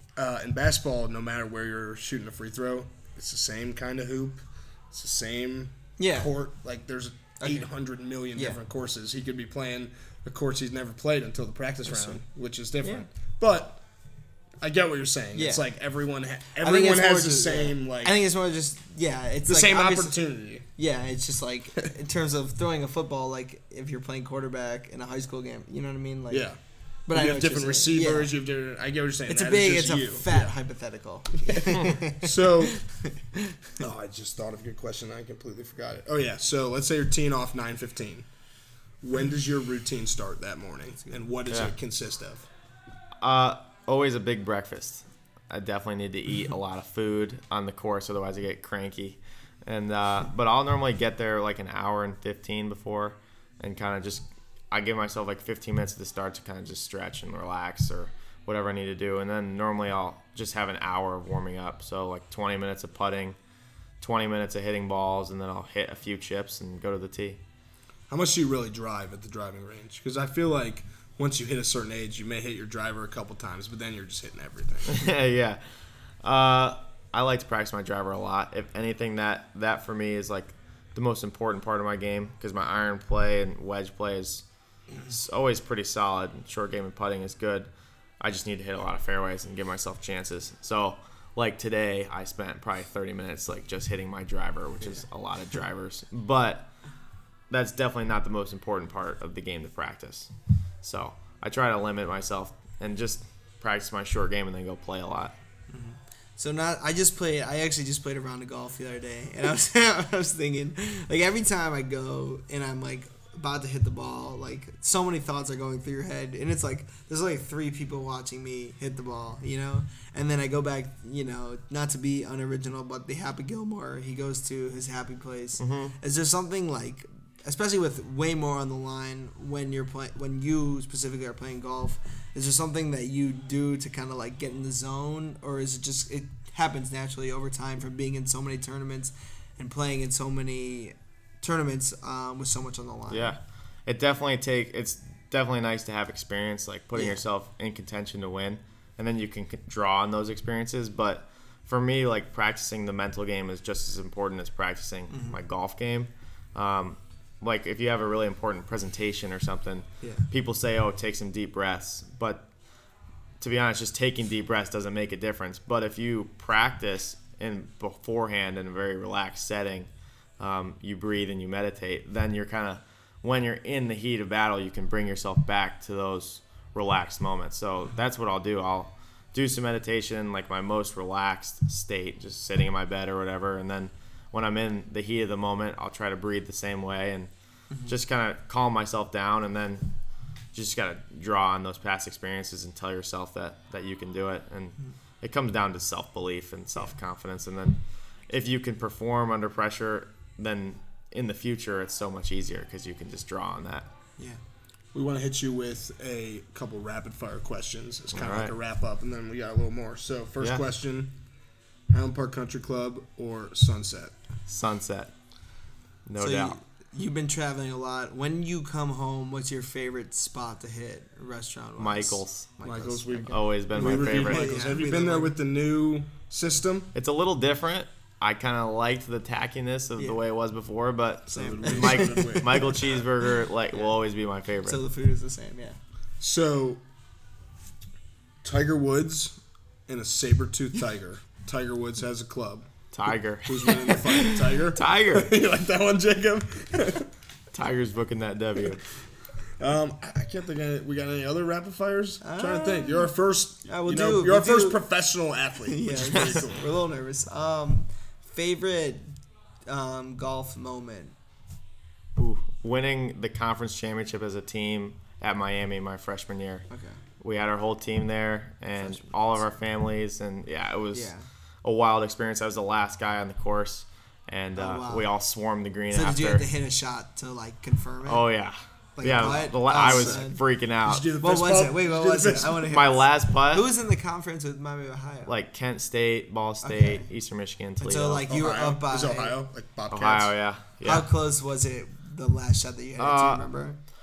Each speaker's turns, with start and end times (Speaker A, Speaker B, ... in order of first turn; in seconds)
Speaker A: 0.1-13.8, 14.6-18.1, 19.4-20.6, 26.3-26.6, 27.1-30.5, 31.5-32.8, 33.8-38.3, 39.0-42.5, 68.1-75.1, 204.9-211.1, 211.9-214.1, 222.6-226.9, 231.3-233.0, 236.2-236.8, 238.4-242.7, 243.4-247.1, 249.6-256.7, 279.2-280.2, 280.8-282.7, 288.3-290.3
Speaker B: 6.0-6.3, 7.4-7.7, 11.8-12.2, 12.8-13.1, 15.3-15.6, 16.6-20.2, 20.7-26.5, 27.1-28.3, 29.3-33.6, 105.7-143.4, 146.9-147.2, 155.1-155.4, 216.2-225.3, 231.3-232.7, 234.6-235.8, 252.2-253.1, 253.7-254.8, 255.6-259.1, 259.7-261.1, 266.7-267.0, 268.8-269.4, 270.9-271.2, 274.6-275.1, 275.9-278.3, 279.0-280.4, 281.2-285.3, 286.6-287.1, 287.8-289.4, 290.8-293.8
Speaker C: 43.2-63.4, 64.0-67.4, 74.9-75.6, 76.2-84.4, 85.0-87.7, 88.2-96.7, 97.5-100.3, 100.8-105.3, 125.6-126.0, 143.1-162.4, 163.4-187.3, 187.8-189.9, 190.5-203.9, 208.1-208.5, 214.5-215.1, 216.1-216.6, 221.8-222.5, 223.1-224.7, 226.9-234.8, 242.9-245.3, 247.5-248.8, 262.1-266.7, 267.2-271.1, 271.6-276.5, 278.1-281.1, 282.6-283.7, 285.3-288.2, 289.9-291.1, 293.0-293.5